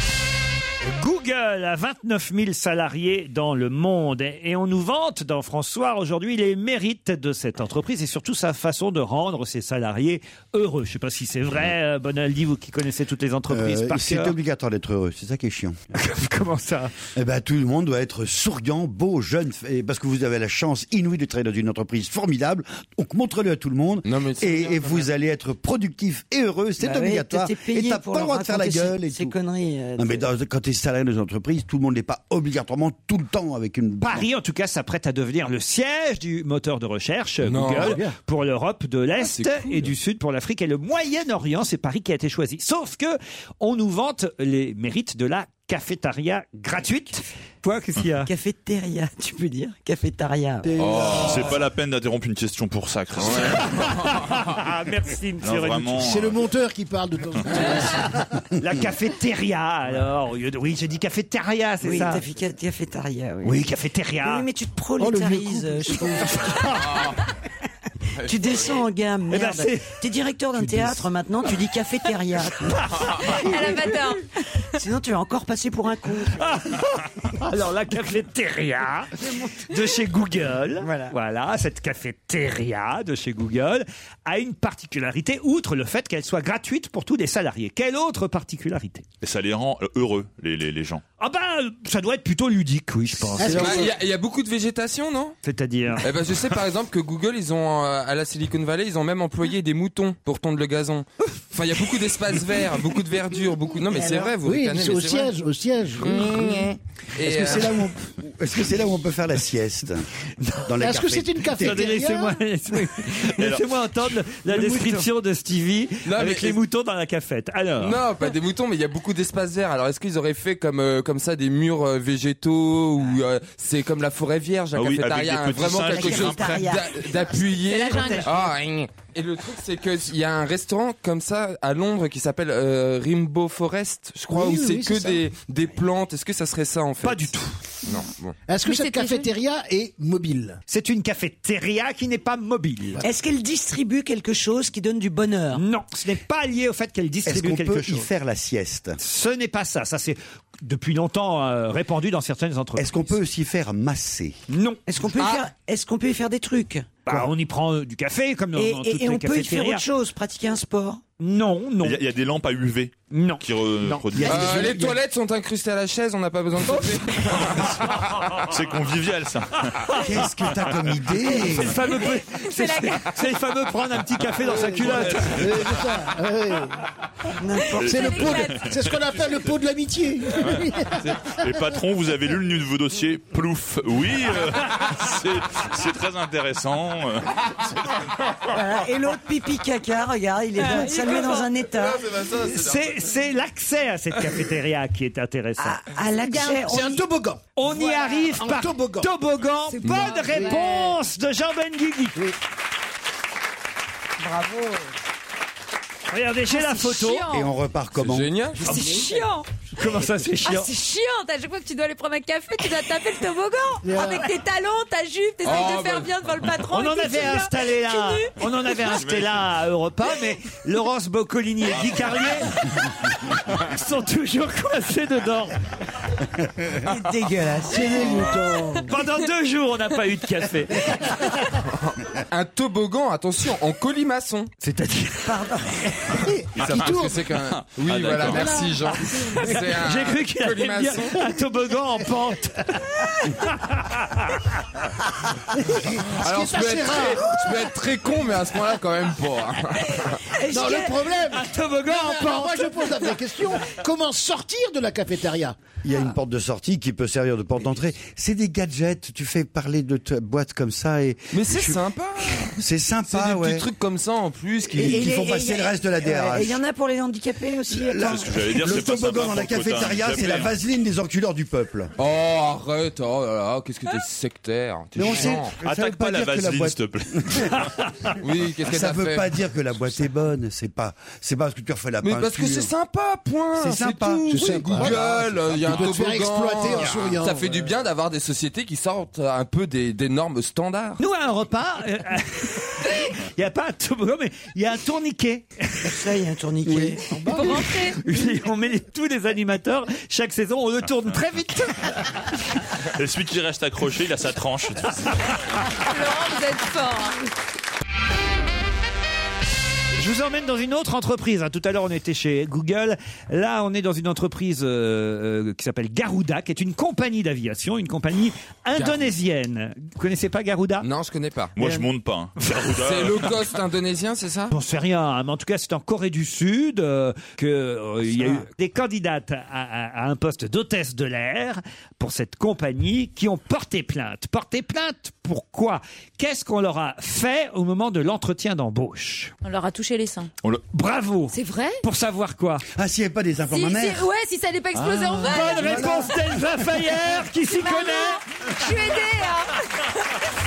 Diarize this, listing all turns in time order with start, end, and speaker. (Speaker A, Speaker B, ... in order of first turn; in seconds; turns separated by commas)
Speaker A: 0.8-14.3, Speaker B: 13.5-15.8, Speaker A: 15.9-16.9, Speaker B: 17.1-29.3, Speaker C: 24.0-25.1, Speaker D: 26.8-30.3, Speaker B: 30.0-34.3, Speaker A: 34.0-48.3, Speaker C: 37.4-38.1, Speaker C: 39.2-39.9, Speaker D: 48.2-51.0, Speaker B: 50.6-51.5, Speaker C: 50.8-51.5, Speaker E: 51.2-53.9, Speaker C: 53.2-53.6, Speaker A: 53.5-56.0, Speaker E: 55.4-56.4, Speaker F: 56.0-58.4, Speaker A: 58.6-62.2, Speaker D: 61.8-63.7, Speaker A: 63.4-64.5, Speaker D: 64.2-66.8, Speaker F: 65.0-66.8, Speaker C: 66.8-67.2, Speaker C: 68.2-68.8, Speaker D: 68.2-73.6, Speaker A: 69.3-69.9, Speaker A: 70.6-71.0, Speaker A: 72.6-73.7, Speaker G: 73.3-74.3, Speaker D: 74.7-76.7, Speaker A: 76.4-89.0, Speaker D: 80.8-81.1, Speaker E: 89.2-91.0, Speaker A: 91.2-93.9, Speaker F: 93.4-93.9, Speaker C: 93.4-95.3, Speaker A: 95.4-96.0, Speaker C: 96.0-105.3, Speaker D: 103.9-104.3, Speaker F: 104.4-106.7, Speaker C: 106.0-107.9, Speaker B: 107.2-110.0, Speaker A: 110.4-110.7, Speaker B: 110.6-112.0, Speaker F: 110.8-112.4, Speaker A: 111.6-118.0, Speaker E: 113.3-113.8, Speaker C: 116.0-116.6, Speaker C: 117.8-137.3, Speaker E: 124.7-126.7, Speaker D: 125.9-128.5, Speaker G: 127.6-128.4, Speaker F: 134.3-135.2, Speaker A: 137.0-137.6, Speaker C: 137.8-138.4, Speaker F: 138.5-140.6, Speaker G: 138.6-139.3, Speaker A: 140.7-143.0, Speaker D: 143.0-145.6, Speaker A: 145.5-148.1, Speaker B: 147.2-149.0, Speaker A: 149.0-153.1, Speaker B: 152.8-154.3, Speaker A: 154.5-154.8, Speaker D: 154.9-156.9, Speaker C: 155.1-155.4, Speaker A: 157.1-159.8, Speaker D: 158.6-161.0, Speaker A: 161.2-162.0, Speaker E: 161.8-164.8, Speaker A: 163.1-164.2, Speaker B: 164.1-165.0, Speaker C: 164.2-167.8, Speaker E: 168.2-169.9, Speaker B: 170.0-171.9, Speaker A: 171.3-175.5, Speaker G: 171.4-173.2, Speaker F: 174.4-176.8, Speaker E: 175.0-175.6, Speaker D: 177.4-178.0, Speaker G: 177.8-178.7, Speaker E: 177.8-179.0, Speaker F: 177.8-181.4, Speaker E: 180.4-187.7, Speaker D: 188.5-192.1, Speaker G: 190.6-191.4, Speaker C: 191.7-193.1, Speaker A: 192.4-195.8, Speaker D: 195.6-197.0, Speaker G: 196.3-196.8, Speaker F: 196.5-199.1, Speaker A: 197.6-202.2, Speaker G: 199.7-200.9, Speaker F: 200.1-200.6, Speaker F: 204.3-204.5, Speaker A: 206.1-207.2, Speaker G: 206.5-207.5, Speaker B: 207.3-208.3, Speaker C: 207.9-208.6, Speaker F: 208.6-209.1, Speaker G: 208.6-209.5, Speaker A: 209.7-210.7, Speaker G: 210.4-218.8, Speaker F: 213.8-214.3, Speaker C: 215.4-216.2, Speaker A: 216.7-222.7, Speaker E: 218.9-219.4, Speaker A: 223.5-225.5, Speaker D: 226.8-228.3, Speaker F: 227.7-228.9, Speaker A: 228.8-231.2, Speaker C: 231.7-234.5, Speaker A: 234.6-235.5, Speaker D: 235.2-236.3, Speaker F: 236.3-237.2, Speaker C: 236.6-241.2, Speaker E: 236.6-236.9, Speaker E: 237.6-238.6, Speaker F: 238.2-239.7, Speaker A: 239.4-244.4, Speaker F: 245.6-247.7, Speaker C: 246.2-250.2, Speaker D: 250.3-251.1, Speaker F: 250.4-255.6, Speaker A: 251.3-253.1, Speaker B: 255.8-263.7, Speaker C: 261.3-262.5, Speaker C: 263.1-265.1, Speaker B: 264.7-266.6, Speaker D: 264.8-268.3, Speaker B: 267.7-271.9, Speaker E: 268.0-270.5, Speaker C: 272.0-275.6, Speaker B: 274.9-277.5, Speaker E: 275.6-277.7, Speaker C: 278.2-279.4, Speaker B: 278.6-282.7, Speaker C: 282.0-291.0, Speaker B: 283.6-285.8, Speaker F: 284.3-287.7, Speaker A: 291.0-296.0, Speaker D: 295.8-297.2, Speaker F: 297.1-297.6, Speaker G: 297.3-298.0, Speaker A: 297.9-302.1, Speaker E: 302.9-305.4, Speaker G: 305.7-307.2, Speaker A: 310.0-320.9, Speaker C: 318.8-319.1, Speaker C: 320.8-321.6, Speaker E: 321.5-323.3, Speaker C: 322.7-324.5, Speaker A: 324.5-339.3, Speaker G: 339.4-340.3, Speaker A: 340.7-342.6, Speaker G: 341.3-341.8, Speaker B: 342.7-344.1, Speaker G: 343.5-350.3, Speaker E: 344.7-345.4, Speaker A: 345.2-348.2, Speaker B: 345.6-346.1